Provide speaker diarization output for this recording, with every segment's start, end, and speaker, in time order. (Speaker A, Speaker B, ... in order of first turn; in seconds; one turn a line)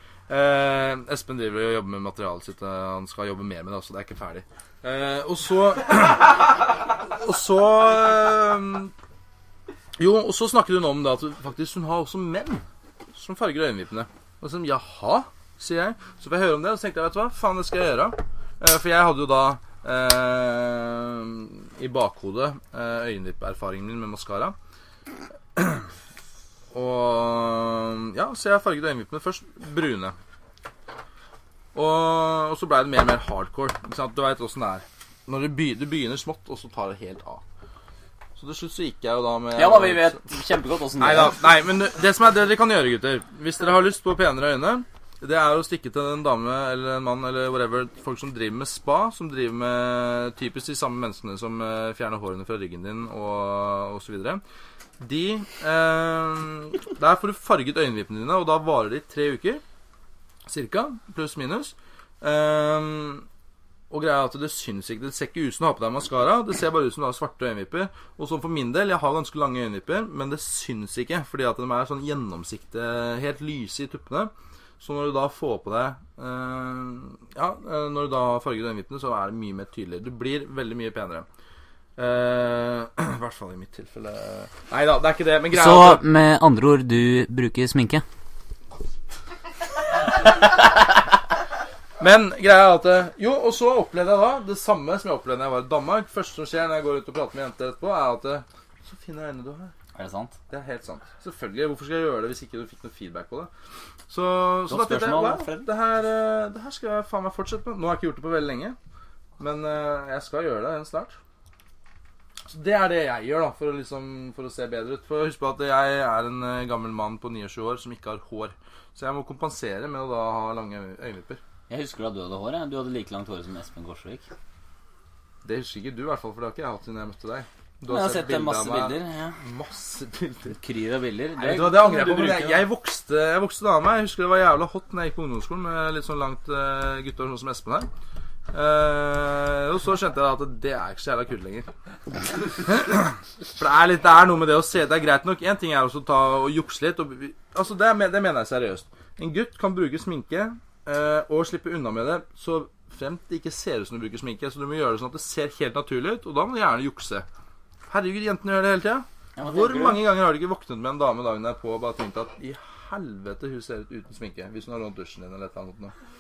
Speaker A: 0.3-8.9
Speaker A: 10.0-24.6
Speaker A: 25.6-25.9
Speaker A: 26.7-30.2
Speaker A: 31.7-37.4
Speaker A: 38.4-40.2
Speaker B: 39.5-41.4
Speaker A: 41.0-54.4
Speaker A: 55.0-59.6
Speaker A: 60.5-63.3
Speaker A: 63.9-81.3
Speaker A: 82.0-86.0
Speaker B: 85.5-88.0
Speaker A: 92.0-99.7
Speaker B: 100.0-100.4
Speaker A: 100.5-103.5
Speaker A: 104.1-108.8
Speaker B: 104.7-105.7
Speaker A: 109.4-111.2
Speaker A: 112.5-121.4
Speaker B: 121.7-124.2
Speaker A: 125.4-130.6
Speaker B: 127.9-129.4
Speaker B: 130.6-132.7
Speaker A: 131.4-137.9
Speaker A: 138.5-141.7
Speaker A: 142.4-157.3
Speaker A: 157.9-165.9
Speaker B: 159.4-160.1